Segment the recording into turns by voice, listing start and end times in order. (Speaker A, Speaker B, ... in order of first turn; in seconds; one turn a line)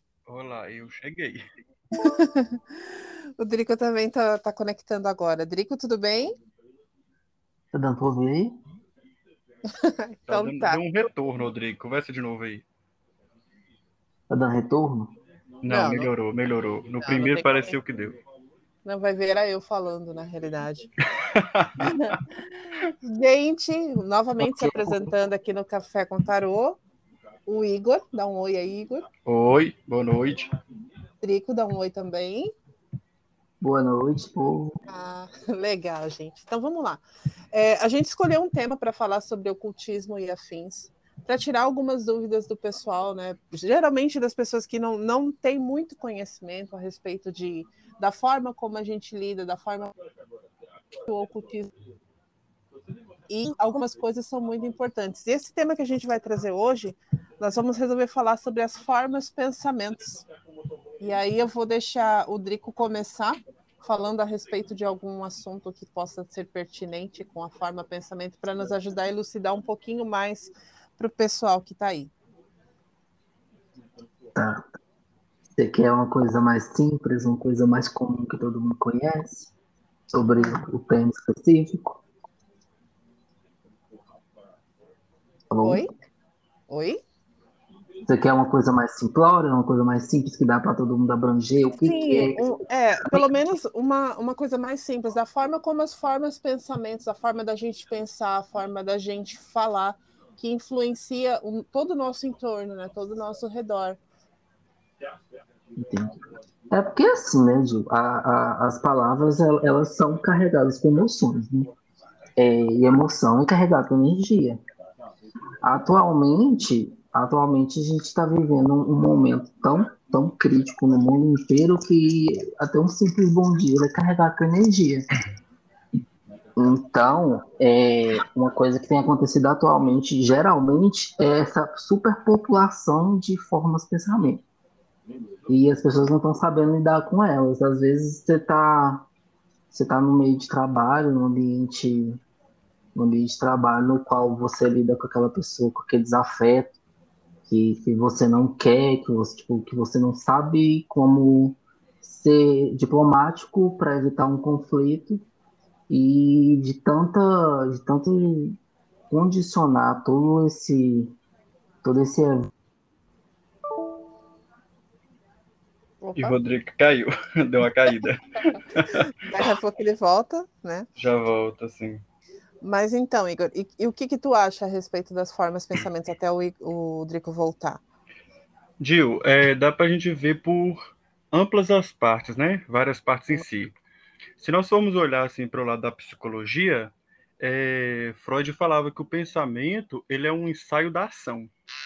Speaker A: 0.3-1.4
Speaker B: 1.9-6.3
Speaker C: 7.7-8.5
Speaker B: 9.7-10.8
Speaker A: 10.3-12.6
Speaker C: 14.3-15.2
Speaker A: 15.6-18.2
Speaker B: 15.7-16.1
Speaker B: 17.0-17.7
Speaker B: 18.8-20.9
Speaker A: 21.2-22.2
Speaker B: 21.8-22.2
Speaker B: 23.0-26.8
Speaker C: 24.4-25.1
Speaker B: 27.5-29.1
Speaker A: 29.2-30.5
Speaker B: 31.2-32.5
Speaker C: 33.6-34.8
Speaker B: 34.9-49.9
Speaker B: 51.0-51.7
Speaker B: 53.3-60.2
Speaker B: 61.0-72.1
Speaker C: 74.3-74.6
Speaker C: 75.5-79.5
Speaker C: 80.1-82.0
Speaker C: 85.5-85.8
Speaker B: 85.6-85.9
Speaker B: 86.7-87.0
Speaker C: 88.1-92.5
Speaker B: 91.7-104.0
Speaker C: 105.8-111.7
Speaker C: 112.4-114.6
Speaker C: 115.6-125.1
Speaker C: 126.6-134.4
Speaker C: 135.5-139.1
Speaker C: 139.7-142.2
Speaker C: 142.9-146.8
Speaker C: 147.5-155.2
Speaker C: 155.9-158.6
Speaker C: 159.1-161.1
Speaker C: 161.8-162.5
Speaker B: 166.0-166.3
Speaker A: 166.2-169.0
Speaker B: 168.9-170.8
Speaker A: 171.0-172.0
Speaker B: 172.6-177.8
Speaker A: 178.8-183.7
Speaker A: 184.4-191.5